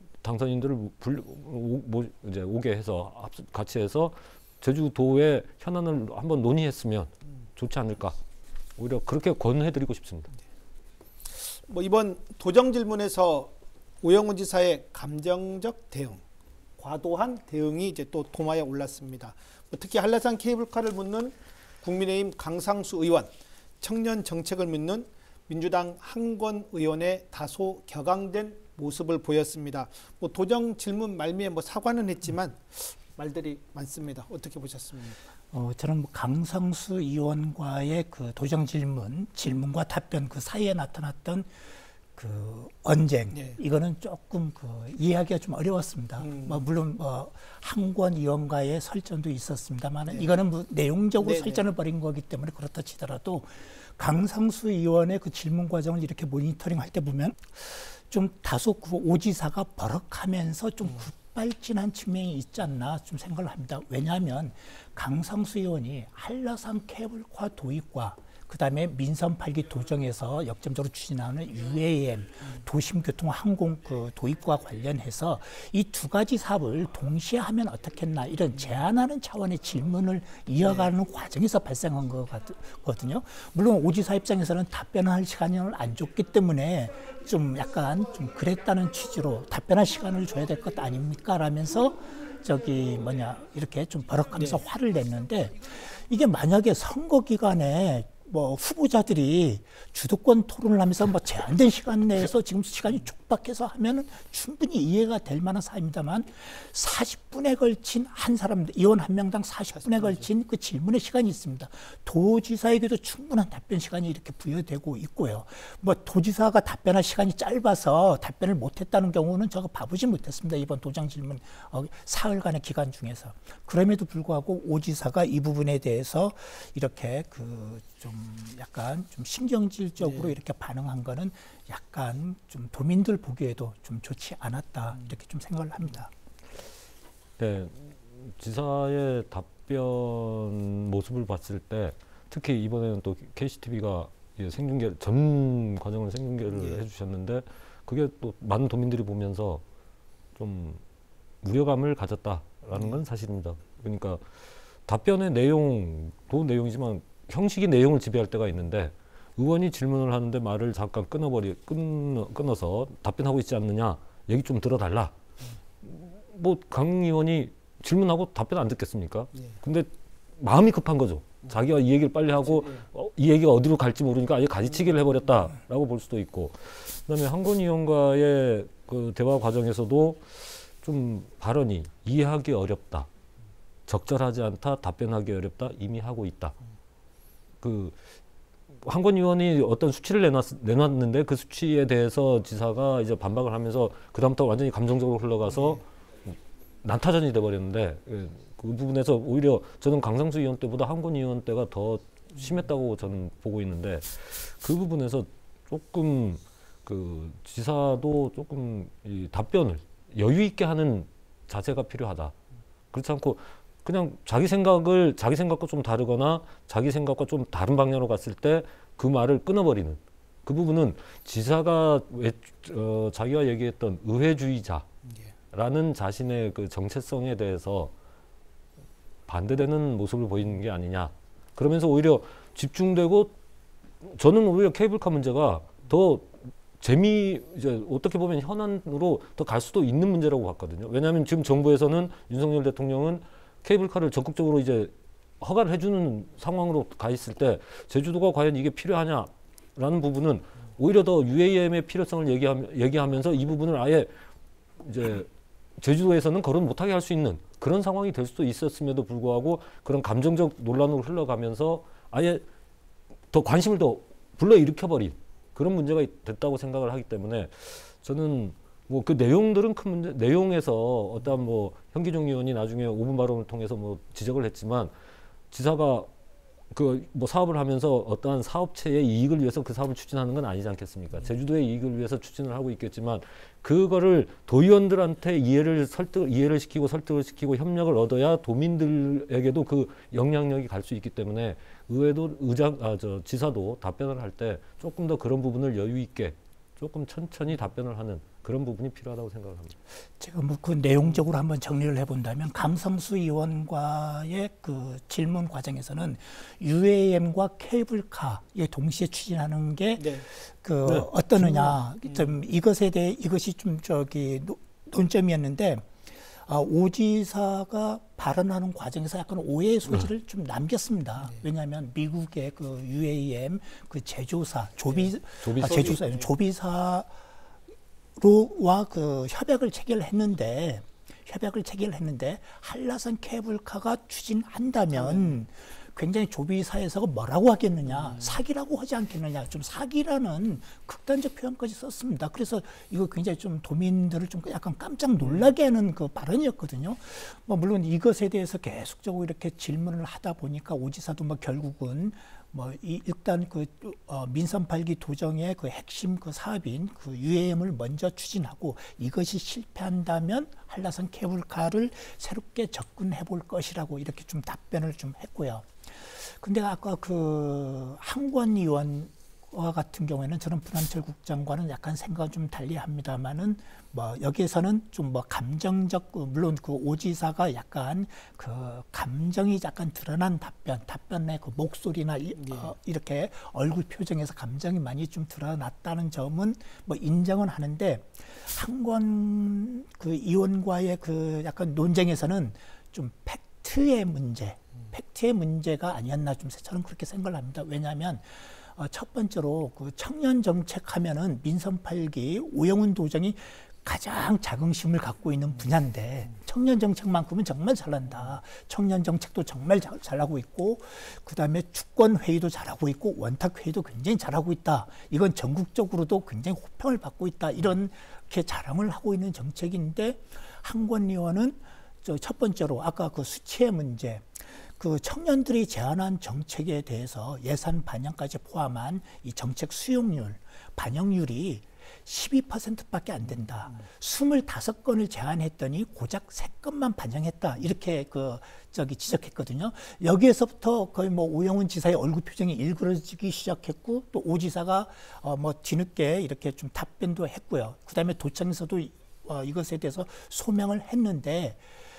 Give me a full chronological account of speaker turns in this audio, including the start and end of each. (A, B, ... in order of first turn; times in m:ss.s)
0:00.2-0:08.2 A
0:08.8-0:10.3 A
0:11.4-0:16.2 B
0:16.8-0:23.3 B
0:23.8-0:35.2 B
0:35.5-0:41.5 C
0:42.1-2:16.1 C
0:43.3-0:43.6 B
0:46.2-0:46.6 B
0:51.2-0:51.6 B
1:20.6-1:20.9 B
1:34.3-1:34.6 B
1:49.8-1:50.2 B
2:10.0-2:10.4 B
2:17.4-2:29.6 A
2:26.5-2:26.8 B
2:30.4-2:30.8 A
2:31.4-2:34.2 A
2:34.9-2:45.1 A
2:45.8-3:03.1 A
2:52.4-2:52.8 B
3:03.9-3:06.5 A
3:07.6-3:08.0 A
3:08.8-3:32.3 A
3:15.5-3:15.8 B
3:32.9-3:44.8 A
3:45.0-3:45.3 B
3:45.5-3:47.9 A
3:49.3-3:53.3 A
3:54.0-4:14.1 A
4:14.8-4:15.3 A
4:15.8-4:22.4 A
4:23.3-4:34.9 A
4:35.5-4:36.1 A
4:36.7-4:59.8 A
5:00.2-5:27.1 C
5:10.0-5:10.2 B
5:10.8-5:11.7 A
5:24.9-5:26.3 B
5:25.4-5:26.0 A
5:28.2-7:31.6 C
5:34.9-5:35.4 B
5:37.9-5:38.4 B
5:45.2-5:45.5 B
6:22.4-6:22.7 B